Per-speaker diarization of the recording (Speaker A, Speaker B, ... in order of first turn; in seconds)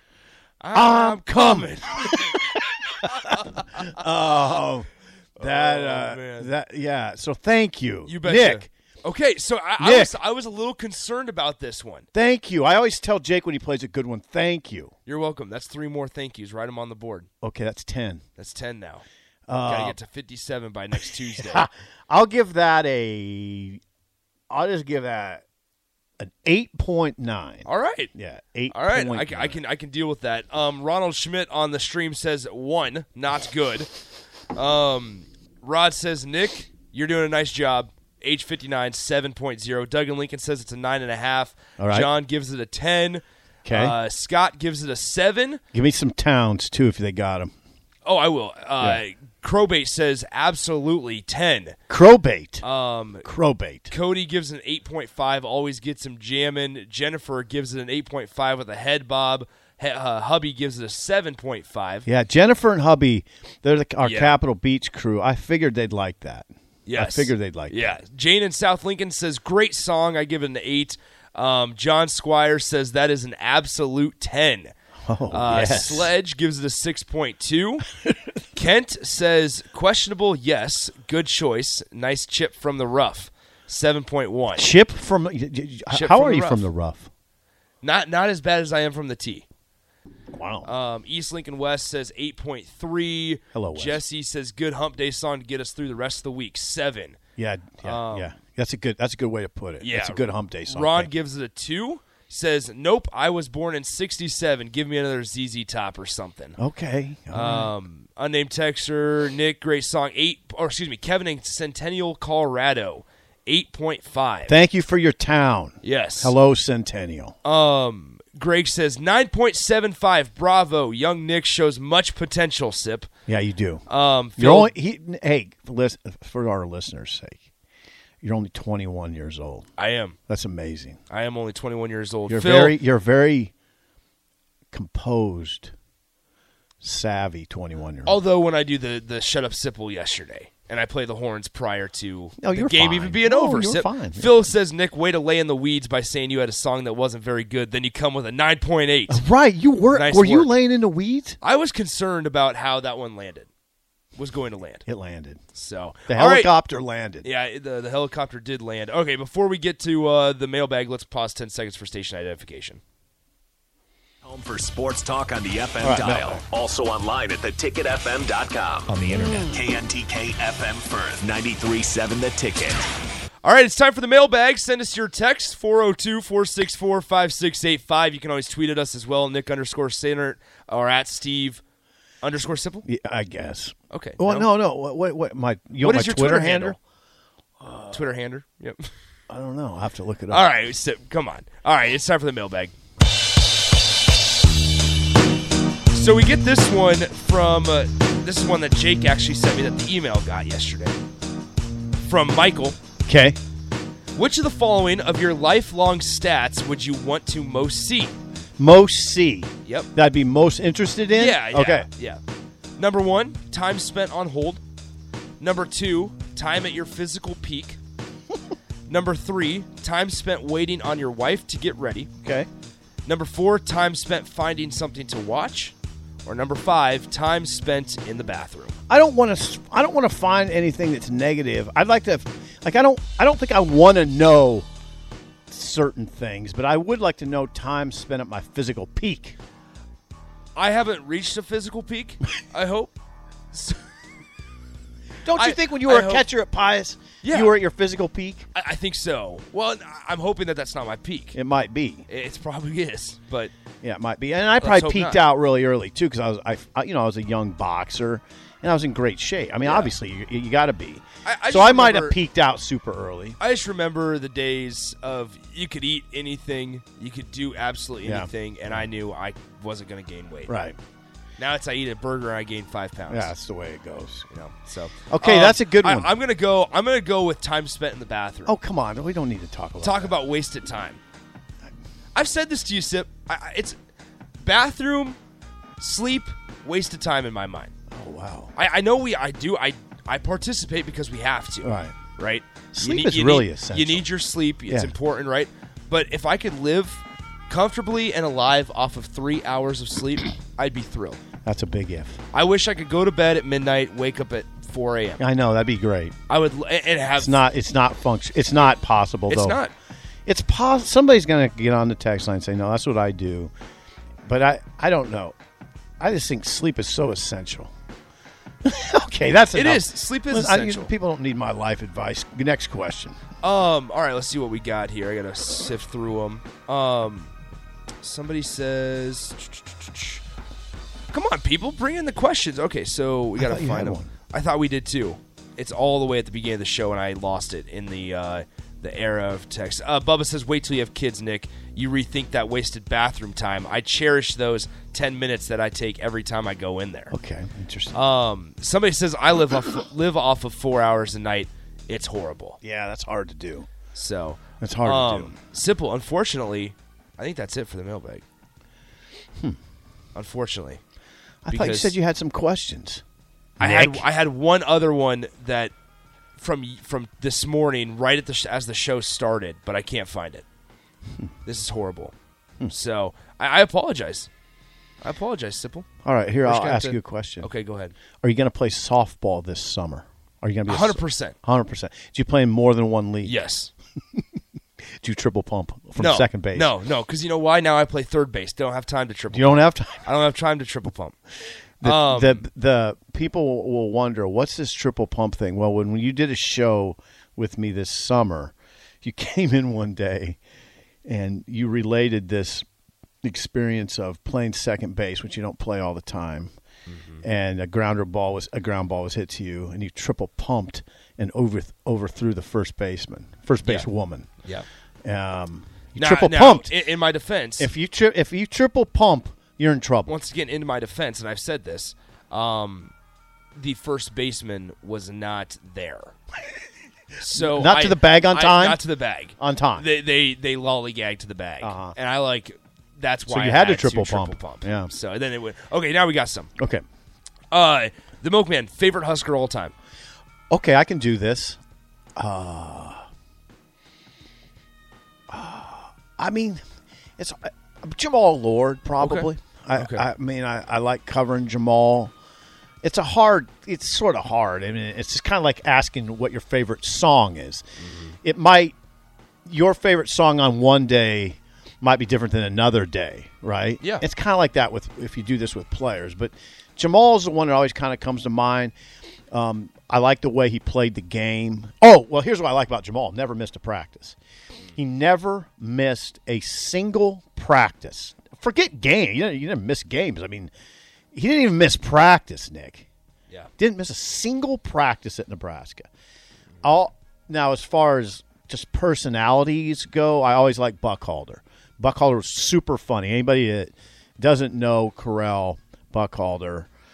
Speaker A: 0.6-3.9, 5.4-6.5, 8.1-12.1, 15.1-17.3, 18.4-19.0, 19.6-21.7, 27.6-28.1, 28.7-33.9, 34.5-45.6, 48.0-51.8, 52.6-53.3, 53.9-62.1, 64.0-64.4, 66.8-74.7, 75.3-77.8, 78.5-84.7, 85.9-86.7, 87.8-89.5, 90.6-97.2, 97.8-98.3, 99.8-106.6, 107.3-114.5, 115.8-116.3, 117.4-123.1, 123.9-124.7, 129.8-130.2, 131.1-132.8, 138.0-149.2, 149.9-150.5, 151.4-153.5, 154.2-154.8, 155.5-156.5, 157.2-162.8, 173.4-181.6, 182.2-182.8, 183.9-184.5, 185.8-186.8, 187.9-188.9, 190.3-192.7, 195.9-201.0, 202.0-202.8, 204.1-208.1, 211.1-212.2, 212.8-214.6, 215.4-217.8, 218.9-222.1, 223.0-225.7, 226.2-228.7, 240.5-242.9, 243.5-243.8, 245.3-246.3, 247.2-247.6, 248.5-251.4, 252.1-253.5, 254.6-255.2, 259.6-259.9, 261.2-262.2, 263.4-270.5, 271.4-273.3, 274.3-278.6, 279.8-281.0, 282.1-283.8, 284.4-285.2, 285.8-287.7, 288.6-301.2, 302.3-305.2, 306.3-307.4, 309.3-309.7, 319.5-320.9, 323.4-327.3, 328.0-330.2, 331.1-347.1, 347.9-352.6, 353.9-358.2, 360.1-360.8, 361.5-361.9, 363.6-365.7, 366.4-370.4, 371.4-372.1, 372.7-374.3, 375.0-375.9, 376.4-377.9, 380.7-381.4, 383.2-383.7, 386.0-391.2, 391.8-392.4, 406.9-407.2, 416.0-417.7, 420.1-422.9, 423.5-426.1, 427.2-436.5, 437.5-439.7, 449.0-450.0, 457.8-458.1
Speaker B: 0.7-8.7, 9.8-10.1, 12.1-14.9, 17.4-18.2, 19.5-20.0, 20.9-23.8, 24.5-25.4, 26.2-29.6, 41.8-42.1, 43.6-44.0, 45.7-47.5, 51.9-52.6, 53.2-53.9, 62.0-68.0, 75.1-76.1, 84.5-87.1, 90.3-90.7, 93.5-94.0, 97.4-101.1, 106.6-107.7, 114.5-117.3, 123.3-123.8, 124.4-127.5, 128.2-129.7, 130.3-131.0, 132.3-133.5, 134.7-135.7, 136.8-138.2, 142.4-144.4, 149.1-151.4, 154.9-155.4, 156.1-157.3, 165.8-166.4, 182.8-186.8, 187.6-188.0, 189.3-190.5, 203.1-203.4, 208.6-211.9, 222.2-222.5, 228.9-234.7, 235.5-239.4, 245.2-248.5, 251.3-252.1, 253.8-263.4, 268.0-268.9, 270.5-270.8, 273.1-274.3, 275.1-276.1, 278.4-280.2, 287.9-288.5, 291.6-291.9, 292.7-294.1, 294.7-294.9, 301.4-302.2, 305.2-306.1, 307.2-309.6, 310.2-313.5, 314.2-315.3, 316.0-317.7, 318.6-323.2, 333.4-334.1, 347.1-348.0, 352.6-353.7, 354.6-355.4, 361.4-363.0, 363.6-364.1, 376.0-377.5, 378.2-383.4, 385.0-386.7, 389.3-390.1, 391.8-400.4, 401.1-402.6, 403.2-406.5, 407.2-414.3, 415.0-416.7, 417.6-420.1, 427.3-428.8, 429.4-429.9, 431.6-431.9, 433.3-434.9, 436.6-436.8, 440.5-441.6, 442.2-443.1, 445.3-446.6, 447.2-452.1, 452.8-457.6, 458.2-458.7, 459.4-468.7, 469.3-474.2, 474.8-480.5, 481.1-482.9, 483.6-485.9, 486.6-496.7
Speaker C: 164.2-172.9